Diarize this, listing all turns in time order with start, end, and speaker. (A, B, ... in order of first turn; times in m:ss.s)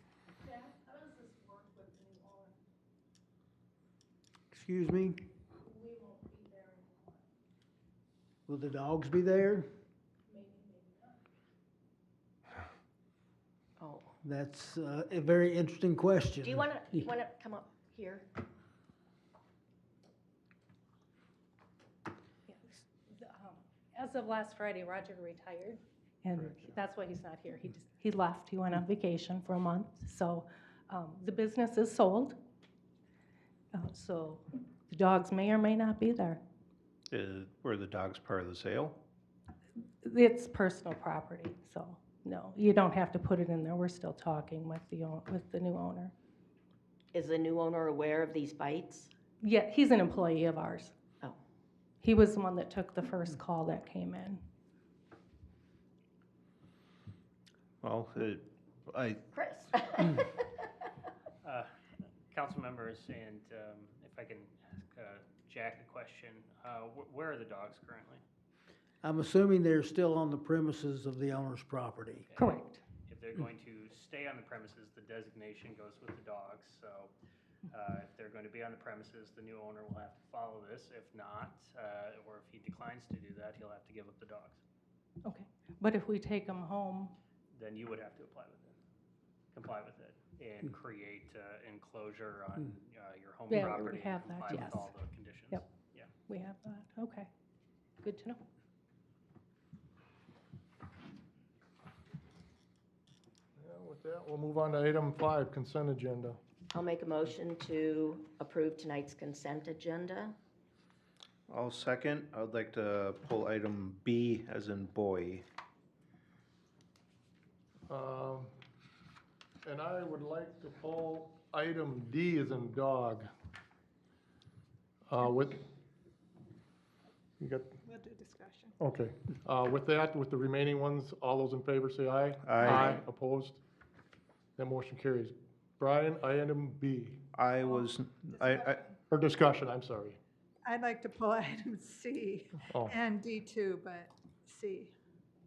0:00.4-0:02.6 A
0:04.5-0:05.3 B
0:05.6-0:07.2 A
0:08.5-0:09.7 B
0:10.3-0:11.2 A
0:13.8-0:14.1 C
0:14.2-0:17.1 B
0:16.4-0:18.3 C
0:22.5-0:32.4 A
0:33.7-0:36.4 A
0:37.1-0:39.0 D
0:40.0-0:46.1 A
0:47.1-0:49.1 C
0:49.4-0:50.9 A
0:52.0-0:54.4 A
0:57.8-0:59.2 D
0:59.3-1:00.3 C
1:02.3-1:08.2 E
1:09.0-1:12.3 B
1:12.3-1:17.1 E
1:12.4-1:12.8 A
1:17.7-1:24.6 E
1:25.2-1:27.1 A
1:27.5-1:28.7 E
1:29.5-1:36.1 E
1:33.5-1:35.0 A
1:36.3-1:37.3 A
1:38.0-1:38.4 A
1:43.6-1:46.4 F
1:46.7-1:50.4 C
1:51.5-1:55.4 D
1:57.9-1:58.5 F
1:59.6-2:03.3 F
2:05.1-2:05.6 F
2:07.4-2:07.8 F
2:07.9-2:08.8 G
2:08.8-2:13.6 F
2:12.4-2:13.0 D
2:14.6-2:17.3 F
2:17.4-2:18.8 D
2:18.4-2:18.9 G
2:19.1-2:20.2 F
2:20.6-2:24.9 G
2:22.7-2:23.0 F